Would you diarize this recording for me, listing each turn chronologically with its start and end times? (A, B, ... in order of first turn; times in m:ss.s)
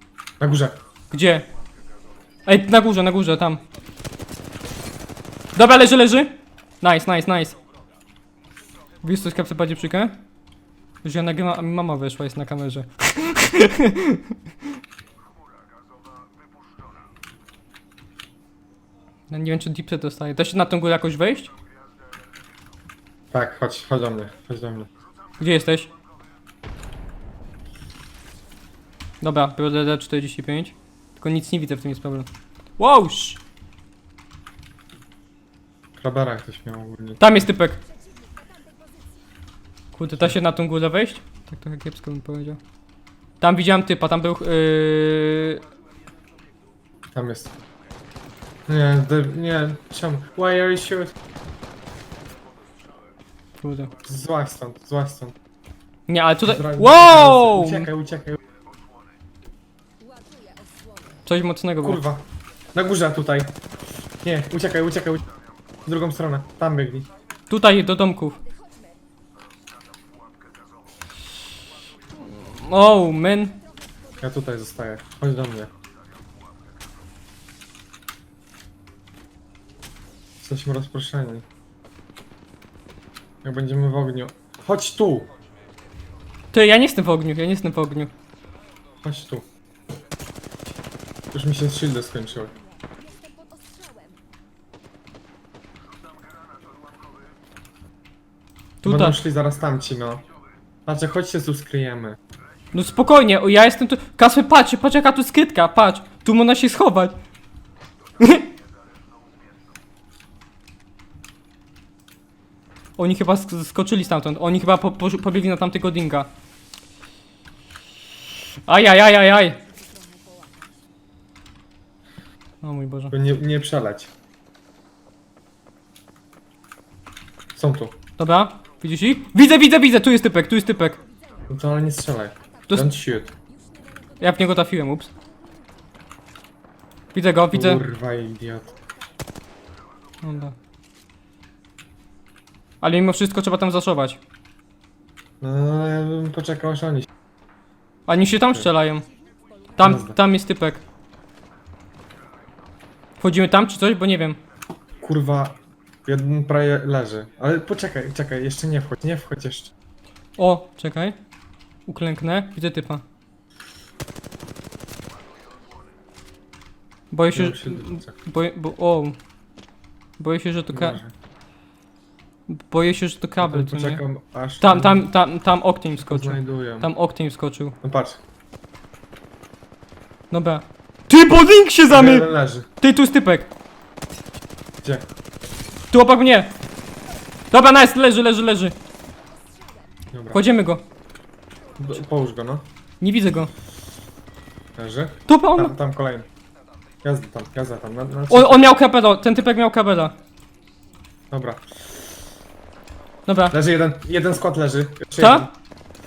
0:00.4-0:00.8 A
0:01.1-0:01.5 B
0:02.4-0:03.6 B
0:05.5-0:07.6 B
0:09.0-0:10.2 B
0:11.0-0:14.3 B
0:19.3-0:21.5 B
0:23.3-0:24.9 A
0:25.4-0:25.9 B
0:29.2-0:33.4 B
0:36.0-0:37.4 A
0:37.2-0:37.8 B
0:39.9-0:42.6 B
0:43.4-0:45.6 B
0:47.1-0:47.5 A
0:48.7-0:51.1 A
0:53.6-0:53.9 B
0:54.0-0:55.3 A
0:56.1-0:57.9 B
0:56.4-0:58.4 A
1:01.2-1:02.0 B
1:01.8-1:03.6 A
1:04.2-1:05.2 A
1:05.8-1:07.1 A
1:07.5-1:08.4 B
1:12.2-1:13.6 B
1:14.2-1:15.7 A
1:20.4-1:21.4 A
1:23.4-1:25.3 A
1:26.5-1:28.1 B
1:29.0-1:29.4 A
1:31.3-1:32.5 A
1:38.8-1:39.2 B
1:38.8-1:40.2 A
1:40.8-1:42.2 A
1:42.7-1:47.2 B
1:48.2-1:48.4 B
1:53.0-1:56.3 B
1:58.7-1:59.6 B
2:02.6-2:03.1 B
2:03.1-2:04.1 A
2:07.6-2:08.0 A
2:08.2-2:11.0 B
2:11.5-2:13.3 A
2:14.2-2:15.1 B
2:17.1-2:17.8 B
2:17.5-2:18.7 A
2:20.2-2:20.5 B
2:22.8-2:24.2 B
2:25.4-2:27.1 A
2:28.1-2:29.1 B
2:29.8-2:30.8 B
2:29.8-2:30.2 A
2:33.2-2:34.4 B
2:35.0-2:39.7 A
2:40.4-2:41.2 B
2:41.8-2:43.0 B
2:47.1-2:49.2 B
2:47.3-2:48.1 A
2:50.2-2:51.0 B
2:50.7-2:51.1 A
2:52.5-2:54.0 B
2:53.4-2:55.1 A
2:54.6-2:57.8 B
2:55.9-2:56.9 A
2:57.8-2:58.2 A
3:00.3-3:02.3 B
3:01.8-3:02.7 A
3:02.8-3:03.5 B
3:05.9-3:06.5 B
3:07.5-3:08.7 B
3:10.1-3:10.4 A
3:10.3-3:10.8 B
3:11.8-3:12.7 A
3:13.0-3:13.5 B
3:14.8-3:16.3 A
3:15.3-3:15.7 B
3:17.0-3:18.7 A
3:18.3-3:20.2 B
3:21.3-3:21.6 A
3:23.3-3:23.6 B
3:23.5-3:25.5 A
3:25.2-3:25.5 B